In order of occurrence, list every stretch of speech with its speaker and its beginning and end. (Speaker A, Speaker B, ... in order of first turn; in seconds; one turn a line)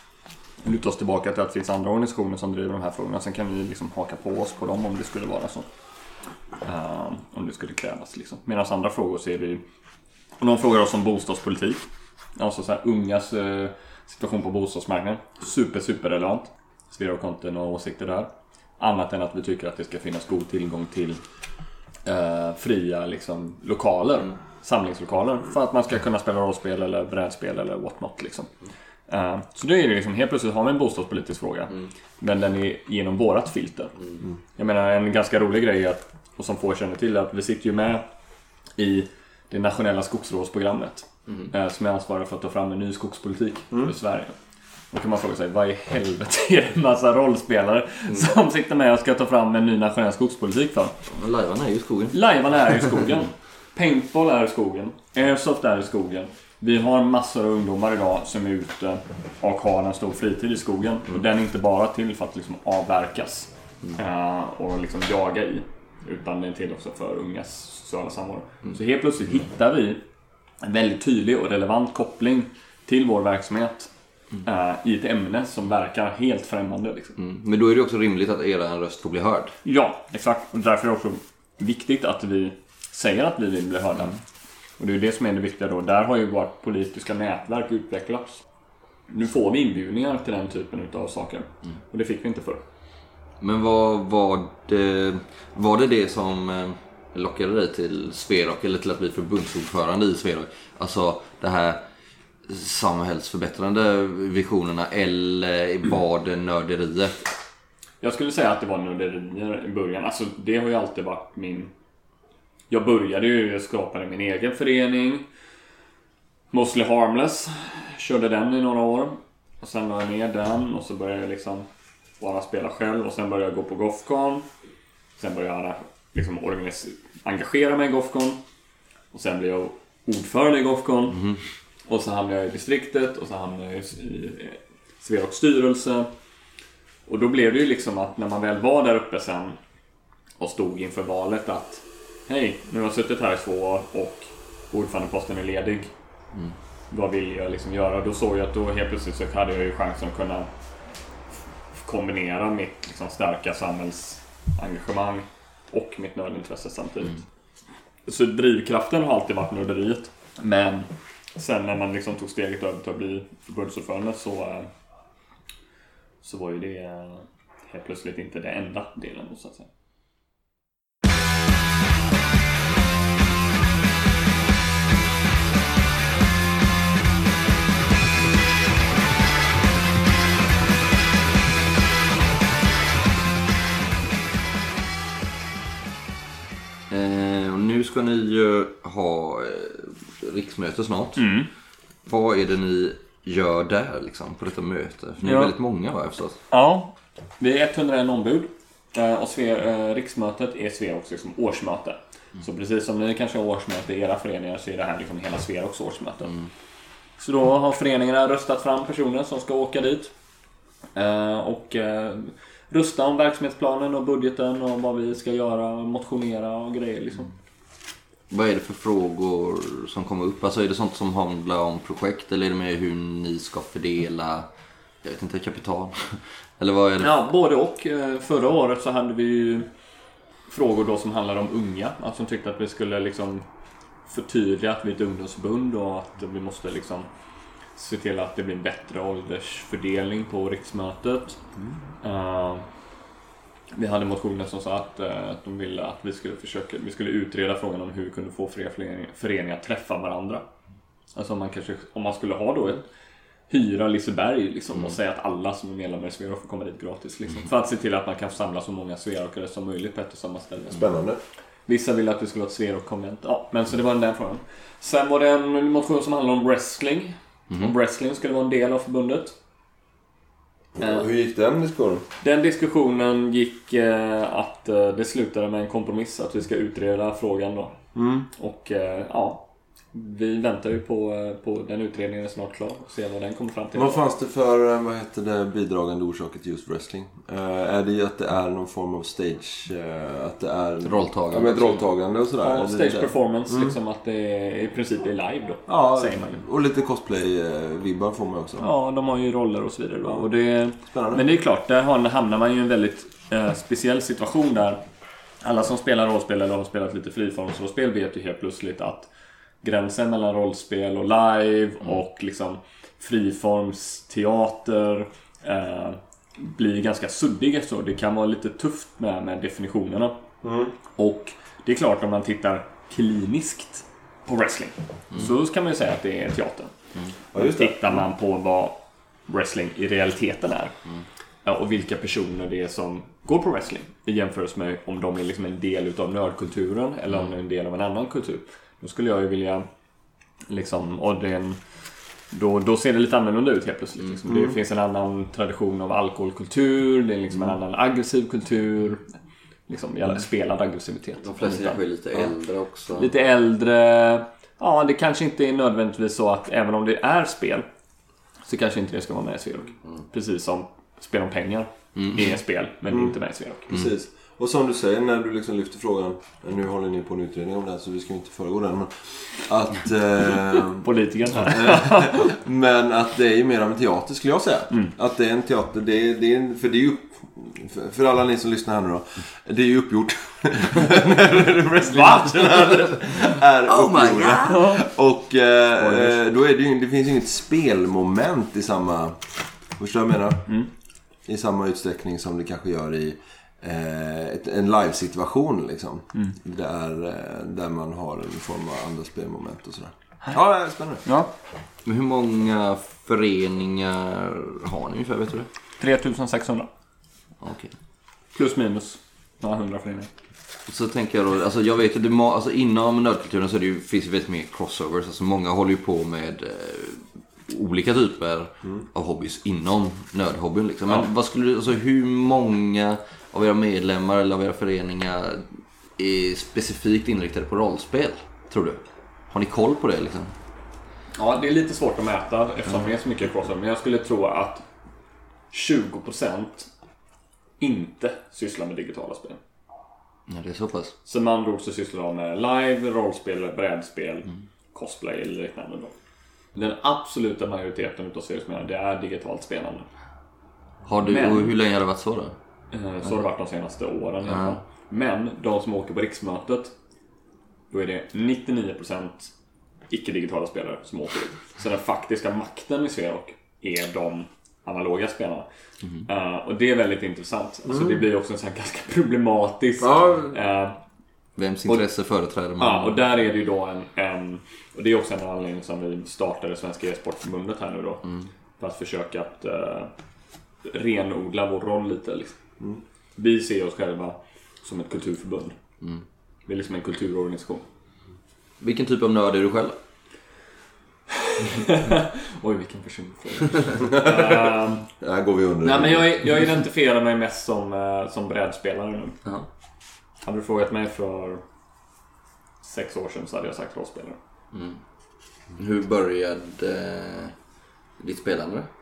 Speaker A: 0.6-5.7
Speaker A: 6.6-9.6
Speaker A: 10.4-21.2
Speaker A: 22.1-28.5
Speaker A: 29.1-33.9
Speaker A: 34.5-38.0
Speaker A: 38.8-44.3
Speaker B: 41.3-41.5
Speaker A: 44.9-51.0
Speaker B: 51.1-52.2
Speaker A: 52.1-70.0
Speaker A: 70.6-73.9
Speaker A: 74.4-77.2
Speaker B: 77.2-79.6
Speaker A: 79.6-84.2
Speaker A: 84.8-88.4
Speaker A: 89.1-92.6
Speaker B: 93.4-101.8
Speaker B: 102.5-107.3
Speaker A: 108.0-111.7
Speaker A: 112.7-115.3
Speaker A: 116.5-121.7
Speaker A: 122.2-124.5
Speaker A: 125.2-128.4
Speaker A: 129.1-131.2
Speaker B: 131.1-131.4
Speaker A: 131.8-136.1
Speaker A: 137.1-139.6
Speaker A: 140.4-145.9
Speaker A: 146.9-150.5
Speaker A: 151.8-157.2
Speaker A: 158.1-164.7
Speaker A: 166.2-169.7
Speaker B: 186.9-191.3
Speaker A: 191.2-191.5
Speaker B: 192.1-196.4
Speaker A: 195.2-195.5
Speaker A: 196.5-206.3
Speaker A: 207.2-210.1
Speaker A: 210.9-217.3
Speaker B: 218.3-224.5
Speaker B: 225.0-227.2
Speaker A: 227.0-229.7
Speaker A: 230.5-233.4
Speaker A: 234.1-237.1
Speaker A: 237.8-241.4
Speaker A: 242.0-242.7
Speaker A: 243.7-250.4
Speaker A: 251.1-252.9
Speaker A: 253.5-260.9
Speaker C: 260.7-261.2
Speaker A: 261.7-269.4
Speaker C: 270.7-272.0
Speaker A: 270.8-271.1
Speaker A: 272.2-277.8
Speaker C: 277.9-278.3
Speaker A: 278.3-284.0
Speaker C: 283.7-293.7
Speaker B: 290.8-291.8
Speaker A: 292.4-296.4
Speaker C: 295.7-298.7
Speaker A: 298.6-304.8
Speaker C: 300.9-301.2
Speaker A: 305.4-309.1
Speaker A: 309.6-320.2
Speaker C: 320.4-320.7
Speaker A: 320.9-326.7
Speaker C: 327.3-328.0
Speaker A: 327.4-330.7
Speaker A: 331.4-339.6
Speaker A: 340.5-341.6
Speaker A: 342.3-349.1
Speaker C: 344.3-344.6
Speaker A: 349.7-352.3
Speaker B: 351.2-353.1
Speaker A: 352.9-357.7
Speaker A: 358.4-363.7
Speaker B: 361.9-362.2
Speaker C: 363.7-389.2
Speaker A: 370.8-372.3
Speaker B: 383.6-384.6
Speaker A: 384.4-384.8
Speaker A: 385.8-386.1
Speaker C: 389.8-390.5
Speaker C: 391.2-401.0
Speaker A: 401.0-401.3
Speaker B: 401.8-405.5
Speaker A: 405.8-406.7
Speaker B: 407.4-407.7
Speaker A: 408.3-410.1
Speaker B: 410.7-430.3
Speaker A: 431.1-434.6
Speaker A: 435.5-436.7
Speaker A: 437.6-439.4
Speaker B: 440.3-440.9
Speaker A: 441.1-445.9
Speaker A: 446.5-449.9
Speaker B: 450.9-452.4
Speaker A: 451.1-451.5
Speaker A: 452.7-456.7
Speaker B: 454.3-454.6
Speaker A: 457.7-459.3
Speaker A: 459.9-465.5
Speaker A: 466.1-470.8
Speaker C: 467.7-468.0
Speaker C: 469.8-470.4
Speaker B: 471.4-473.0
Speaker A: 472.6-478.0
Speaker A: 478.6-479.9
Speaker A: 480.6-482.4
Speaker A: 483.2-485.6
Speaker A: 486.5-487.6
Speaker B: 488.6-489.8
Speaker A: 491.2-494.9
Speaker C: 493.8-496.2
Speaker A: 495.6-499.2
Speaker A: 500.2-501.4
Speaker A: 502.6-504.2
Speaker B: 504.5-504.8
Speaker B: 505.6-507.3
Speaker B: 508.0-508.7